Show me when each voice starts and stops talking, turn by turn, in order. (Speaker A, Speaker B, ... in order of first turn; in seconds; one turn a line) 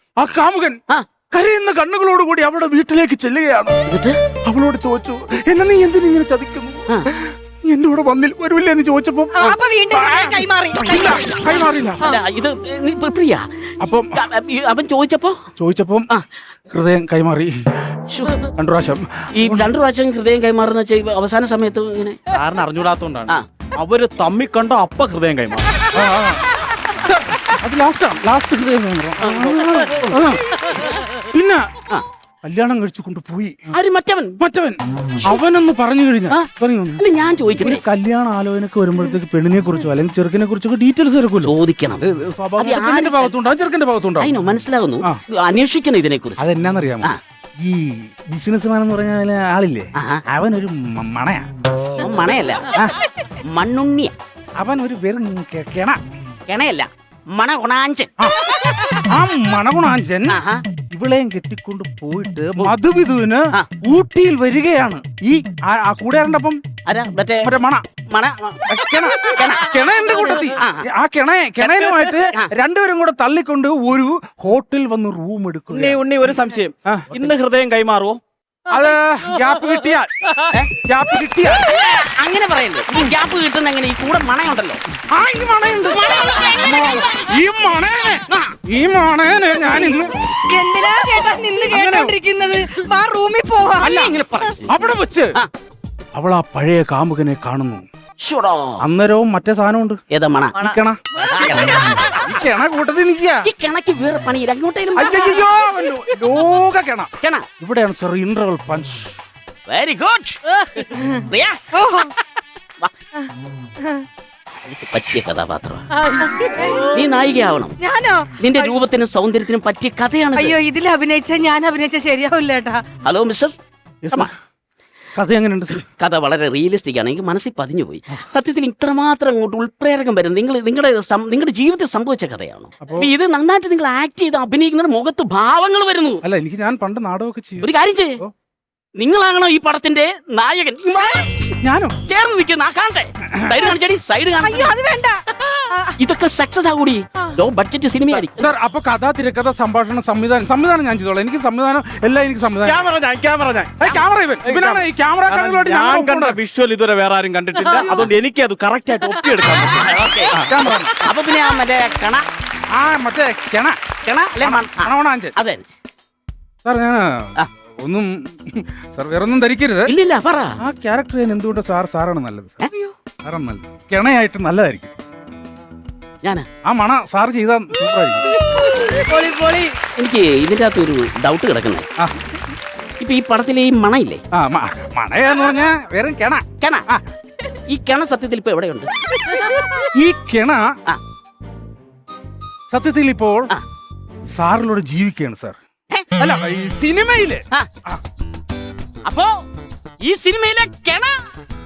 Speaker A: 0.2-0.8
Speaker A: 1.3-3.8
Speaker B: 3.9-4.2
Speaker A: 4.5-12.0
Speaker C: 9.3-12.2
Speaker B: 12.0-13.4
Speaker A: 13.8-14.2
Speaker B: 14.1-15.4
Speaker A: 15.6-16.1
Speaker A: 16.7-17.5
Speaker B: 18.1-18.5
Speaker A: 18.5-19.7
Speaker B: 19.4-22.2
Speaker D: 22.3-25.8
Speaker A: 25.9-30.4
Speaker B: 29.2-30.2
Speaker B: 30.7-31.0
Speaker A: 31.2-31.7
Speaker A: 32.4-33.6
Speaker B: 33.7-34.4
Speaker A: 34.4-37.0
Speaker B: 37.0-37.8
Speaker A: 37.6-44.3
Speaker B: 41.4-42.0
Speaker B: 42.6-43.4
Speaker B: 44.2-46.4
Speaker A: 46.4-51.5
Speaker B: 51.9-52.8
Speaker B: 53.5-54.1
Speaker A: 54.6-56.0
Speaker B: 56.5-58.1
Speaker A: 58.2-60.4
Speaker B: 60.3-60.6
Speaker A: 60.9-66.6
Speaker B: 66.8-67.5
Speaker A: 67.4-67.8
Speaker B: 68.1-69.7
Speaker A: 68.7-76.2
Speaker B: 70.5-70.8
Speaker B: 71.6-72.5
Speaker D: 75.7-78.2
Speaker A: 76.8-77.2
Speaker A: 78.7-80.2
Speaker A: 80.8-81.7
Speaker B: 81.6-84.8
Speaker A: 85.1-90.1
Speaker B: 86.0-87.0
Speaker B: 88.3-88.5
Speaker C: 90.5-94.5
Speaker A: 91.7-92.1
Speaker A: 93.8-94.1
Speaker B: 93.8-94.6
Speaker A: 94.7-95.3
Speaker A: 96.1-97.8
Speaker B: 98.2-98.8
Speaker A: 98.8-100.0
Speaker B: 100.1-102.2
Speaker A: 100.5-103.5
Speaker B: 103.4-105.5
Speaker A: 104.9-109.1
Speaker B: 109.7-110.6
Speaker C: 110.9-112.2
Speaker B: 111.3-111.6
Speaker B: 114.6-115.9
Speaker C: 116.1-117.0
Speaker B: 116.7-117.8
Speaker C: 117.8-118.8
Speaker B: 118.4-120.5
Speaker C: 120.3-122.8
Speaker B: 123.0-123.5
Speaker A: 124.0-124.3
Speaker A: 125.1-125.8
Speaker B: 125.8-136.2
Speaker A: 132.8-133.1
Speaker A: 136.2-137.7
Speaker B: 137.6-138.2
Speaker B: 139.0-141.3
Speaker A: 141.6-142.0
Speaker B: 142.1-144.7
Speaker A: 143.4-143.7
Speaker C: 144.4-145.9
Speaker B: 146.0-148.5
Speaker A: 148.1-152.8
Speaker D: 152.6-159.9
Speaker A: 153.8-156.4
Speaker B: 159.7-160.4
Speaker A: 160.3-161.0
Speaker B: 161.0-162.2
Speaker A: 162.7-163.8
Speaker B: 164.0-165.6
Speaker A: 164.4-165.3
Speaker A: 166.6-169.9
Speaker B: 169.8-170.5
Speaker A: 170.6-172.6
Speaker C: 172.7-172.9
Speaker A: 173.2-174.9
Speaker A: 176.6-178.2
Speaker C: 178.3-179.7
Speaker B: 179.9-181.9
Speaker B: 183.0-184.2
Speaker A: 184.3-187.0
Speaker B: 186.6-186.8
Speaker B: 187.7-189.5
Speaker A: 189.9-190.7
Speaker A: 192.7-193.5
Speaker A: 194.3-195.6
Speaker A: 196.2-198.0
Speaker B: 199.0-199.3
Speaker B: 200.0-201.2